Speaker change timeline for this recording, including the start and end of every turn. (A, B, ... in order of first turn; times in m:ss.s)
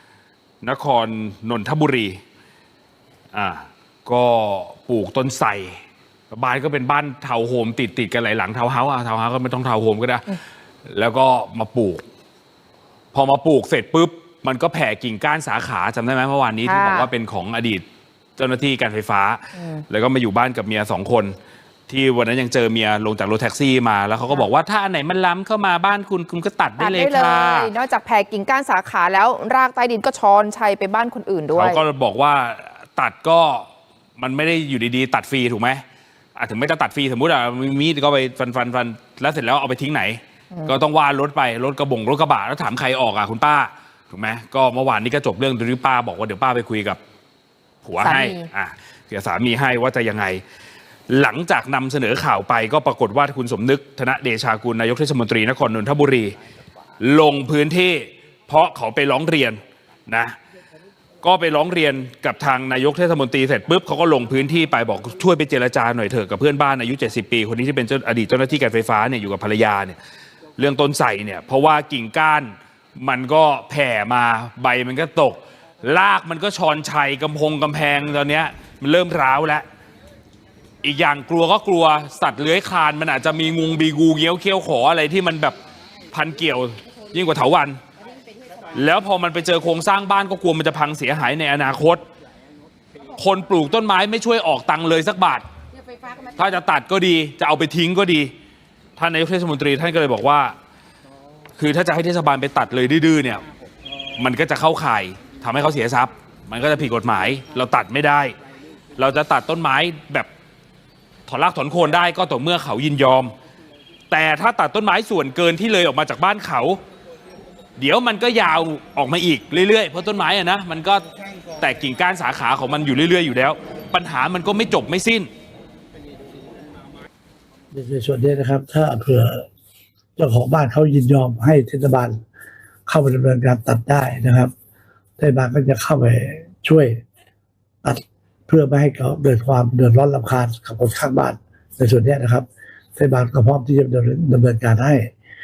0:00.6-0:02.2 A
0:03.3-0:12.0 A
0:13.1-0:17.8 A
0:16.6-0:17.1 B
0:18.4-0:21.3 A
0:19.6-0:19.8 B
0:21.9-0:27.7 A
0:26.8-0:31.8 B
0:31.5-0:33.7 A
0:34.2-0:35.8 A
0:36.4-0:47.0 A
0:47.8-0:50.4 A
0:48.0-0:48.5 B
0:51.1-0:56.3 A
0:57.0-1:00.4 A
1:01.2-1:10.0 A
1:10.6-1:19.6 A
1:20.8-1:25.6 A
1:26.1-1:27.8 A
1:28.7-1:32.0 A
1:33.1-1:35.4 A
1:36.3-1:38.3 A
1:39.0-1:40.5 A
1:41.6-1:43.4 A
1:44.2-1:48.3 A
1:49.0-1:50.3 A
1:51.3-1:53.3 A
1:54.1-1:56.8 A
1:57.8-2:01.0 A
2:01.6-2:05.3 A
2:07.7-2:09.5 C
2:10.2-2:12.2 C
2:12.9-2:14.5 C
2:15.2-2:17.0 C
2:17.8-2:25.1 C